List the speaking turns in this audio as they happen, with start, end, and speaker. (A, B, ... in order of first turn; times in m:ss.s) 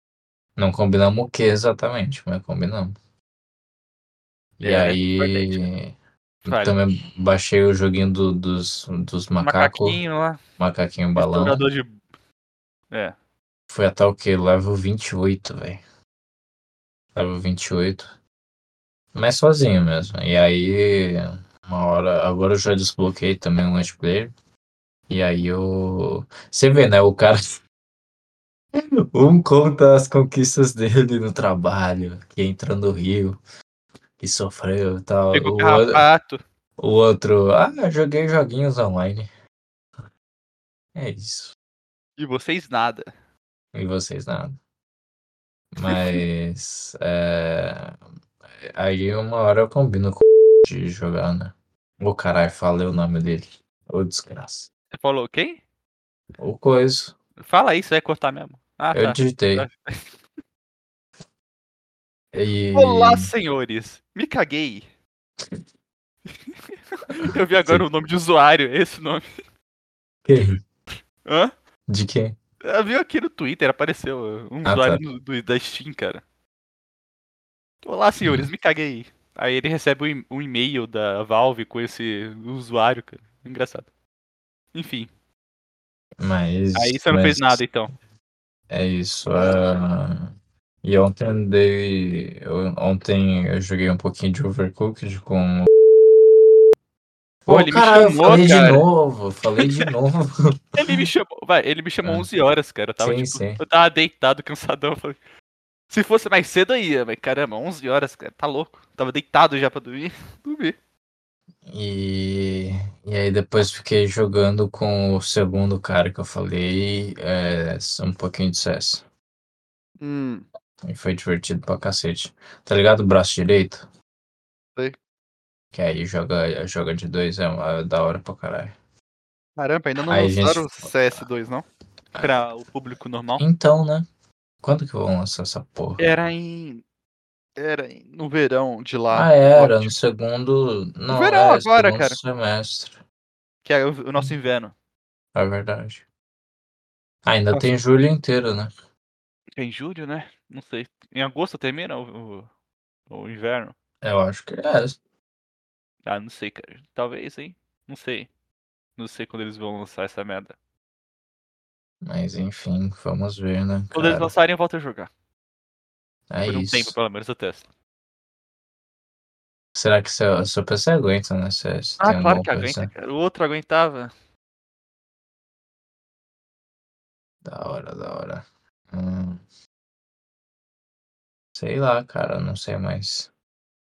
0:00.6-0:02.9 A
0:04.6-0:05.9 A
0:04.6-0:05.6 B
0:06.4-0:06.8 B
0:06.4-0:10.0 A
0:09.4-0:10.4 B
0:10.6-0:11.6 A
0:11.2-0:12.0 B
0:13.7-0:15.8 A
0:17.1-0:18.1 A
0:19.1-0:24.3 A
0:25.1-0:27.6 A
0:28.7-0:33.4 A
0:34.2-0:36.0 A
0:35.3-0:36.4 B
0:36.8-0:39.3 A
0:40.9-0:41.5 A
0:42.2-0:43.1 B
0:43.7-0:44.6 A
0:45.7-0:48.0 A
0:45.9-0:46.2 B
0:48.6-0:54.7 A
0:54.9-0:55.6 B
0:56.4-0:57.1 A
0:57.4-1:00.0 B
0:58.9-0:59.7 A
1:02.3-1:03.3 A
1:02.7-1:04.8 B
1:06.4-1:09.2 B
1:07.2-1:07.8 A
1:10.2-1:10.6 A
1:11.2-1:11.5 B
1:11.9-1:12.4 A
1:12.6-1:16.2 B
1:14.6-1:15.0 A
1:17.8-1:23.9 B
1:18.2-1:18.5 A
1:24.7-1:25.1 B
1:26.2-1:27.6 A
1:26.7-1:27.9 B
1:28.7-1:30.3 A
1:30.8-1:35.7 A
1:37.4-1:40.8 A
1:37.5-1:38.8 B
1:39.6-1:39.8 B
1:40.8-1:45.2 B
1:43.0-1:43.6 A
1:45.9-1:50.8 B
1:51.6-1:59.0 A
2:00.0-2:00.4 B
2:00.8-2:03.8 A
2:05.7-2:08.7 A
2:09.6-2:11.6 B
2:10.1-2:10.9 A
2:12.2-2:13.4 B
2:13.4-2:14.1 A
2:14.6-2:16.0 A
2:16.0-2:16.8 B
2:17.6-2:19.9 B
2:19.1-2:23.0 A
2:21.1-2:22.2 B
2:23.6-2:24.7 B
2:25.3-2:26.0 A
2:27.2-2:28.7 A
2:29.6-2:32.5 B
2:33.1-2:33.7 B
2:34.0-2:35.0 A
2:36.0-2:38.3 B
2:39.0-2:40.5 B
2:42.0-2:44.3 A
2:43.9-2:45.1 B
2:46.3-2:46.9 A
2:46.4-2:47.6 B
2:49.7-2:52.9 A
2:52.0-2:54.1 B
2:57.4-2:59.4 A
3:01.5-3:03.3 A